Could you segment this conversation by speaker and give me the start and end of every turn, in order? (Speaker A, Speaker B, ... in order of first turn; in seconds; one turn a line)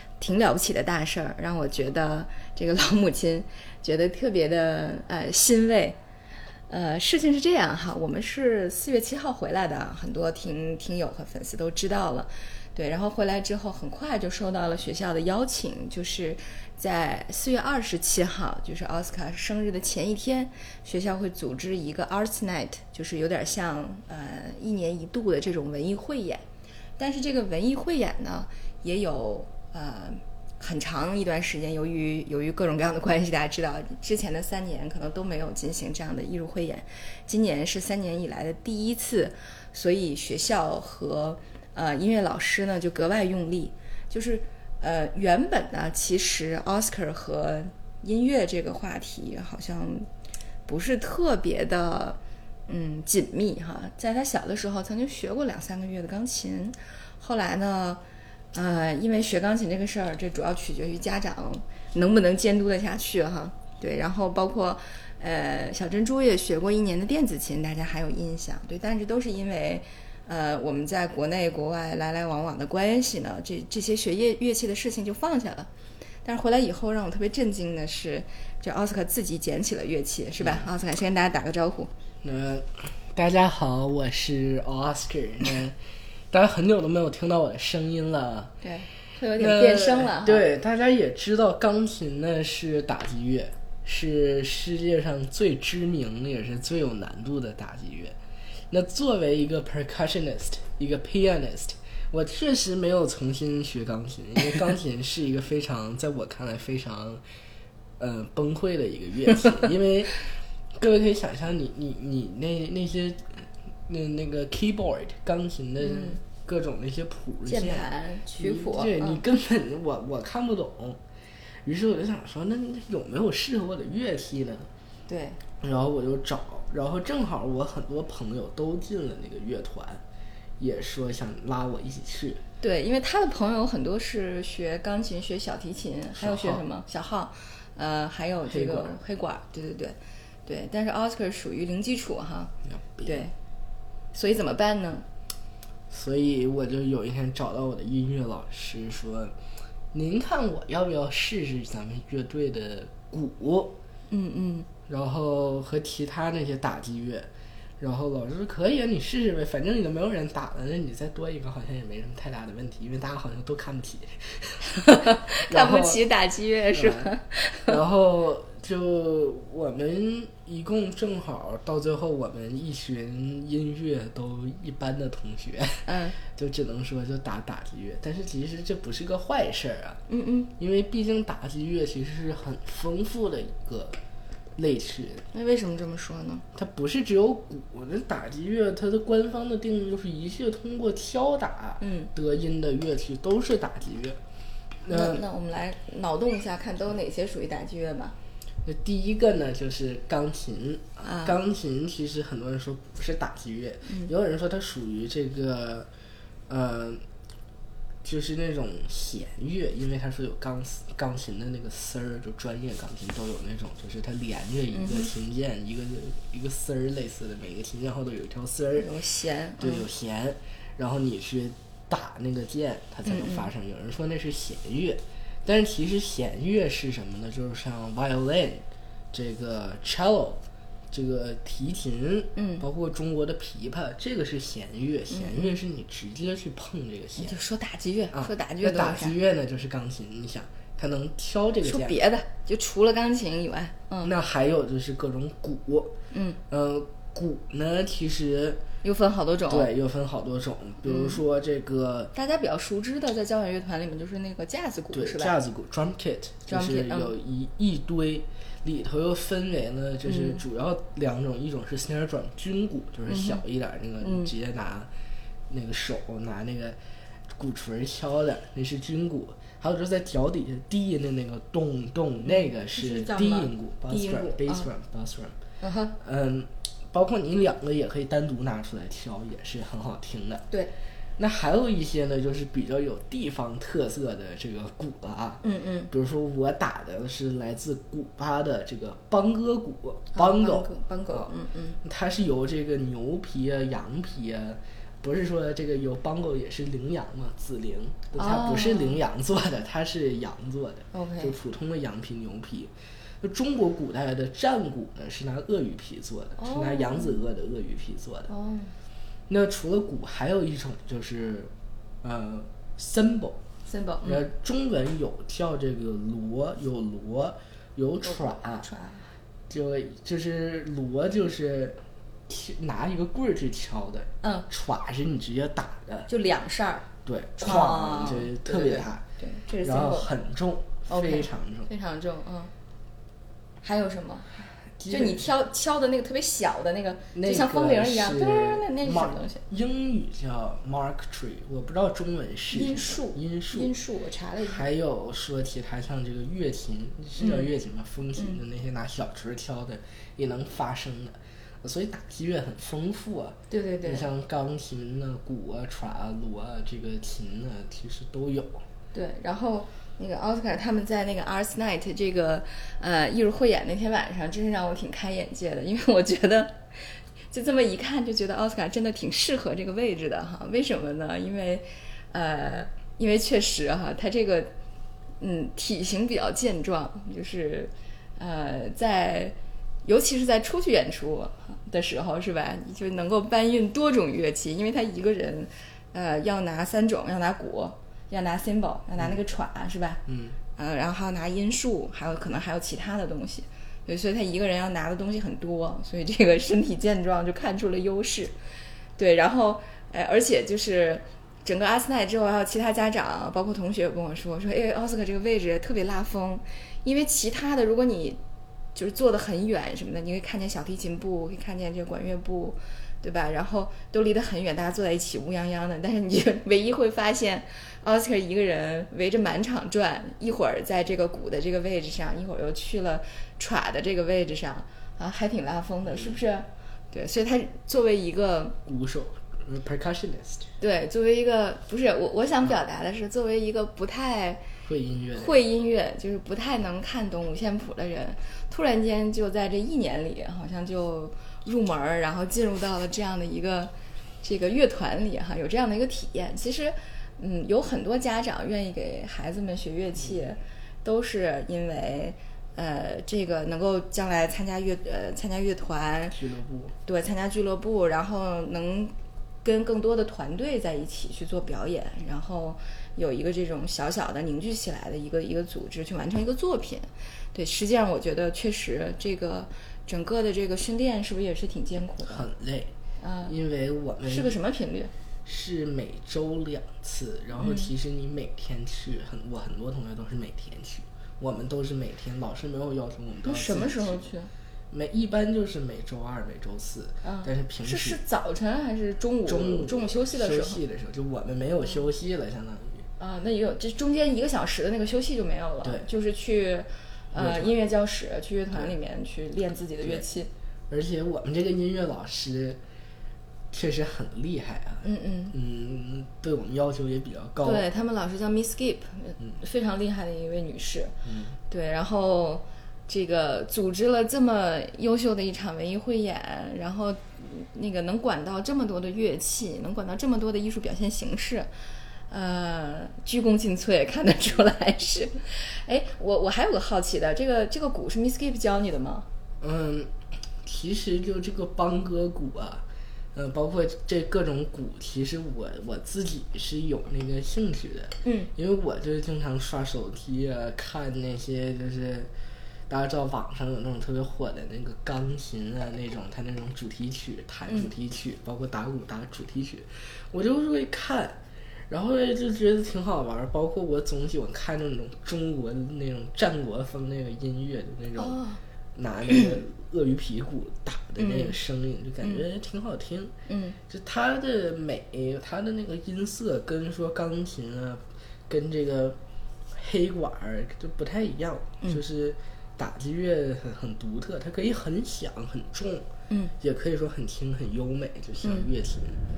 Speaker A: 0.2-6.0
Speaker A: 6.7-26.4
Speaker A: 27.0-50.1
Speaker A: 50.7-58.0
Speaker A: 58.5-75.7
Speaker A: 76.2-81.9
Speaker B: 80.4-80.7
Speaker B: 82.2-85.8
Speaker B: 86.3-88.5
Speaker A: 88.6-90.4
Speaker B: 89.4-98.2
Speaker B: 98.7-107.2
Speaker B: 108.0-121.0
Speaker A: 115.8-116.2
Speaker A: 117.5-119.2
Speaker B: 121.6-124.7
Speaker A: 125.1-125.4
Speaker B: 125.6-130.0
Speaker B: 130.6-132.4
Speaker A: 132.6-142.5
Speaker B: 136.2-136.7
Speaker B: 138.4-138.9
Speaker B: 142.7-143.2
Speaker A: 143.0-143.3
Speaker A: 144.1-145.0
Speaker B: 145.9-149.3
Speaker B: 149.9-153.8
Speaker A: 154.1-154.7
Speaker B: 154.9-166.0
Speaker A: 164.7-167.8
Speaker B: 166.7-167.1
Speaker B: 167.7-180.0
Speaker A: 175.9-176.2
Speaker A: 180.1-180.5
Speaker B: 180.6-184.0
Speaker B: 184.6-185.2
Speaker A: 185.3-186.4
Speaker B: 186.5-194.2
Speaker A: 191.8-192.1
Speaker B: 194.8-195.2
Speaker A: 194.9-198.2
Speaker B: 198.6-205.9
Speaker A: 201.0-201.4
Speaker B: 206.5-207.0
Speaker B: 208.0-218.9
Speaker A: 214.7-215.1
Speaker A: 218.8-219.8
Speaker B: 219.6-237.4
Speaker A: 223.1-223.5
Speaker A: 232.3-232.7
Speaker A: 235.1-235.6
Speaker A: 237.2-239.2
Speaker B: 238.1-242.0
Speaker A: 241.6-244.1
Speaker B: 244.0-245.9
Speaker A: 246.1-246.4
Speaker B: 246.5-248.6
Speaker A: 248.8-249.7
Speaker B: 249.5-252.1
Speaker A: 250.8-251.2
Speaker A: 252.1-255.4
Speaker B: 254.9-264.9
Speaker A: 256.5-257.1
Speaker A: 260.1-260.4
Speaker A: 263.1-263.4
Speaker A: 264.0-264.3
Speaker B: 265.5-266.8
Speaker B: 267.3-275.4
Speaker A: 272.2-274.7
Speaker A: 275.6-275.9
Speaker B: 276.0-280.4
Speaker B: 281.2-291.3
Speaker A: 285.4-285.9
Speaker A: 290.1-291.8
Speaker B: 291.8-308.3
Speaker A: 298.1-299.0
Speaker A: 300.9-301.3
Speaker A: 306.4-307.2
Speaker A: 308.3-308.7
Speaker B: 309.3-313.4
Speaker A: 313.6-314.2
Speaker B: 314.0-318.7
Speaker A: 318.0-319.1
Speaker B: 319.5-326.1
Speaker A: 324.2-324.5
Speaker A: 326.1-330.1
Speaker B: 327.0-329.0
Speaker B: 329.6-331.7
Speaker A: 330.9-332.5
Speaker A: 333.6-339.4
Speaker B: 334.8-335.2
Speaker B: 337.1-343.7
Speaker A: 342.5-344.6
Speaker B: 344.4-358.6
Speaker A: 347.2-347.5
Speaker A: 353.5-354.1
Speaker A: 358.9-374.5
Speaker A: 375.2-390.0
Speaker B: 390.1-390.4
Speaker A: 390.6-398.3
Speaker A: 399.0-408.2
Speaker A: 408.7-428.6
Speaker B: 425.9-426.2
Speaker B: 428.6-430.5
Speaker A: 430.6-434.4
Speaker B: 434.6-435.4
Speaker A: 435.1-456.2
Speaker B: 456.1-456.7
Speaker A: 456.8-472.2
Speaker B: 472.0-472.7
Speaker A: 473.0-473.3
Speaker B: 473.2-474.4
Speaker A: 474.0-474.9
Speaker B: 475.2-484.1
Speaker A: 477.4-477.7
Speaker A: 483.2-484.3
Speaker B: 484.7-488.0
Speaker A: 487.0-490.6
Speaker B: 489.2-492.9
Speaker A: 493.0-500.3
Speaker B: 497.1-497.5
Speaker B: 499.8-500.1
Speaker B: 500.7-502.6
Speaker B: 503.5-507.6
Speaker A: 504.8-505.4
Speaker A: 507.4-510.9
Speaker B: 511.0-511.4
Speaker A: 511.5-521.5
Speaker A: 522.1-529.1
Speaker B: 529.4-529.9
Speaker B: 530.4-542.1
Speaker A: 538.0-538.3
Speaker B: 542.7-551.2
Speaker B: 551.7-558.2
Speaker A: 558.0-558.4
Speaker B: 558.8-563.1
Speaker A: 561.0-561.4
Speaker A: 563.3-563.6
Speaker B: 563.7-569.0
Speaker B: 569.5-575.9
Speaker B: 576.4-579.0
Speaker A: 578.2-578.5